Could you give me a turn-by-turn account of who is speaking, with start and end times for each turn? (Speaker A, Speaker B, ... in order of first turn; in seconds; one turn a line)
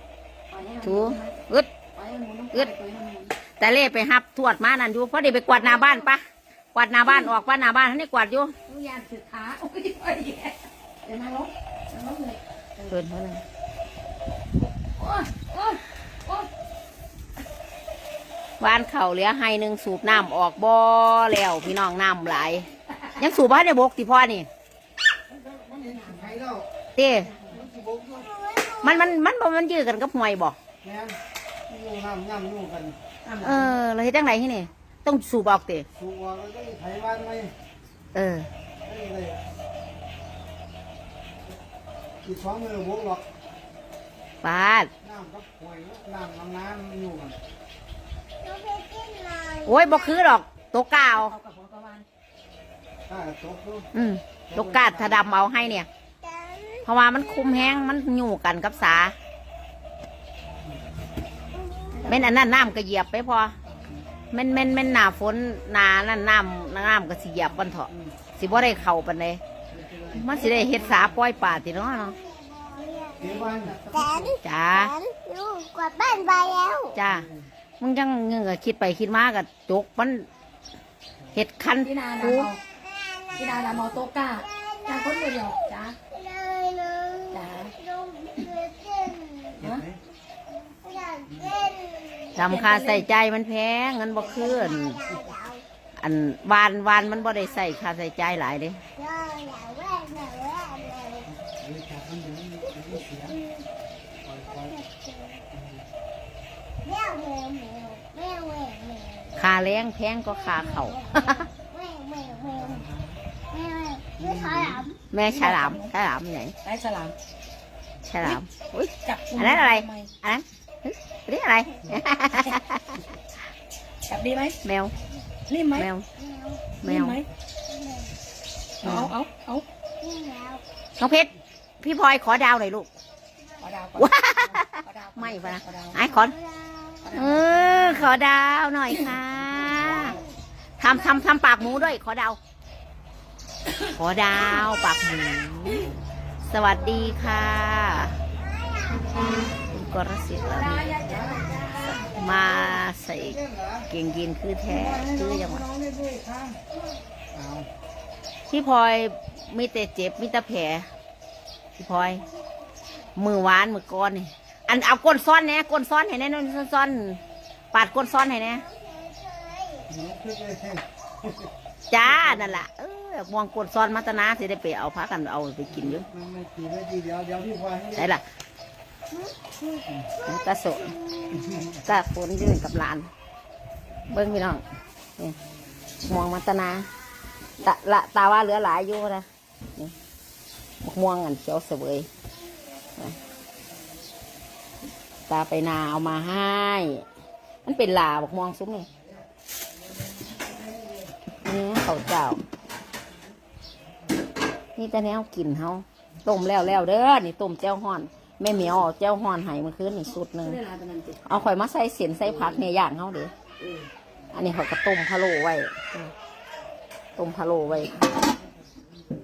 Speaker A: 0.5-1.4
Speaker B: 0.8-1.7
Speaker A: 1.9-3.4
Speaker B: 3.6-6.2
Speaker A: 5.5-6.1
Speaker B: 6.7-8.5
Speaker A: 8.7-13.0
Speaker B: 12.9-13.4
Speaker A: 14.6-16.5
Speaker B: 18.6-22.7
Speaker A: 22.7-23.2
Speaker B: 23.2-24.5
Speaker C: 25.3-26.6
Speaker B: 26.9-27.3
Speaker C: 27.6-28.2
Speaker D: 28.1-29.1
Speaker B: 28.8-30.6
Speaker C: 30.8-31.2
Speaker C: 31.7-33.0
Speaker A: 33.2-33.7
Speaker B: 33.4-35.9
Speaker C: 36.0-37.5
Speaker B: 38.1-38.5
Speaker C: 38.9-39.4
Speaker C: 42.2-43.2
Speaker B: 44.4-44.9
Speaker C: 45.0-47.4
Speaker D: 48.4-50.2
Speaker B: 49.6-51.3
Speaker A: 51.0-52.0
Speaker C: 53.1-53.9
Speaker B: 53.9-55.9
Speaker C: 54.5-55.3
Speaker D: 56.2-56.9
Speaker B: 56.8-59.1
Speaker D: 61.5-62.2
Speaker A: 61.9-62.4
Speaker B: 62.1-63.5
Speaker B: 64.3-69.4
Speaker C: 69.7-71.0
Speaker B: 70.1-72.2
Speaker D: 72.0-77.0
Speaker C: 73.2-73.9
Speaker B: 74.4-74.9
Speaker B: 77.0-77.3
Speaker B: 77.8-80.3
Speaker B: 81.3-82.5
Speaker A: 81.8-82.6
Speaker D: 82.8-89.6
Speaker A: 83.4-86.0
Speaker A: 87.3-87.7
Speaker C: 89.6-90.0
Speaker D: 90.7-92.4
Speaker A: 92.3-93.1
Speaker B: 92.4-95.0
Speaker D: 94.2-95.6
Speaker B: 96.0-98.8
Speaker D: 97.1-97.6
Speaker D: 99.0-101.3
Speaker C: 101.5-103.3
Speaker D: 102.9-103.7
Speaker D: 104.5-105.4
Speaker D: 106.8-109.4
Speaker B: 109.4-111.5
Speaker D: 110.3-112.9
Speaker C: 112.8-113.1
Speaker D: 113.5-115.0
Speaker C: 114.3-114.5
Speaker B: 115.1-116.5
Speaker A: 115.3-115.9
Speaker A: 116.6-117.2
Speaker B: 118.1-123.0
Speaker A: 119.0-120.1
Speaker A: 124.1-124.6
Speaker B: 124.6-124.9
Speaker A: 125.5-125.9
Speaker B: 125.7-126.1
Speaker D: 126.2-126.8
Speaker B: 126.8-127.2
Speaker A: 126.8-127.3
Speaker D: 127.7-128.1
Speaker A: 128.8-129.7
Speaker B: 128.8-129.1
Speaker D: 130.0-130.6
Speaker B: 131.0-131.3
Speaker B: 131.8-132.9
Speaker A: 133.6-136.0
Speaker B: 134.0-136.4
Speaker D: 136.0-137.2
Speaker A: 137.0-138.1
Speaker B: 137.1-140.2
Speaker D: 139.7-140.3
Speaker B: 140.8-142.4
Speaker B: 144.0-145.9
Speaker B: 146.4-148.2
Speaker D: 148.7-149.0
Speaker B: 149.7-150.9
Speaker A: 150.4-152.4
Speaker C: 151.1-151.5
Speaker B: 152.1-155.7
Speaker C: 153.4-153.8
Speaker C: 154.7-156.6
Speaker C: 157.3-157.7
Speaker B: 158.5-160.9
Speaker B: 161.8-162.2
Speaker B: 163.2-167.2
Speaker B: 167.7-168.7
Speaker D: 168.3-169.9
Speaker C: 169.9-170.8
Speaker B: 171.9-176.1
Speaker C: 176.1-177.9
Speaker B: 177.9-178.2
Speaker B: 180.2-181.0
Speaker B: 181.7-183.1
Speaker B: 184.1-184.6
Speaker B: 186.0-186.9
Speaker B: 187.6-189.9
Speaker B: 190.8-192.1
Speaker B: 195.3-197.1
Speaker B: 197.7-198.9
Speaker B: 201.4-202.4
Speaker B: 204.8-210.6
Speaker A: 210.2-211.2
Speaker B: 211.2-213.3
Speaker B: 214.3-216.1
Speaker B: 217.2-218.2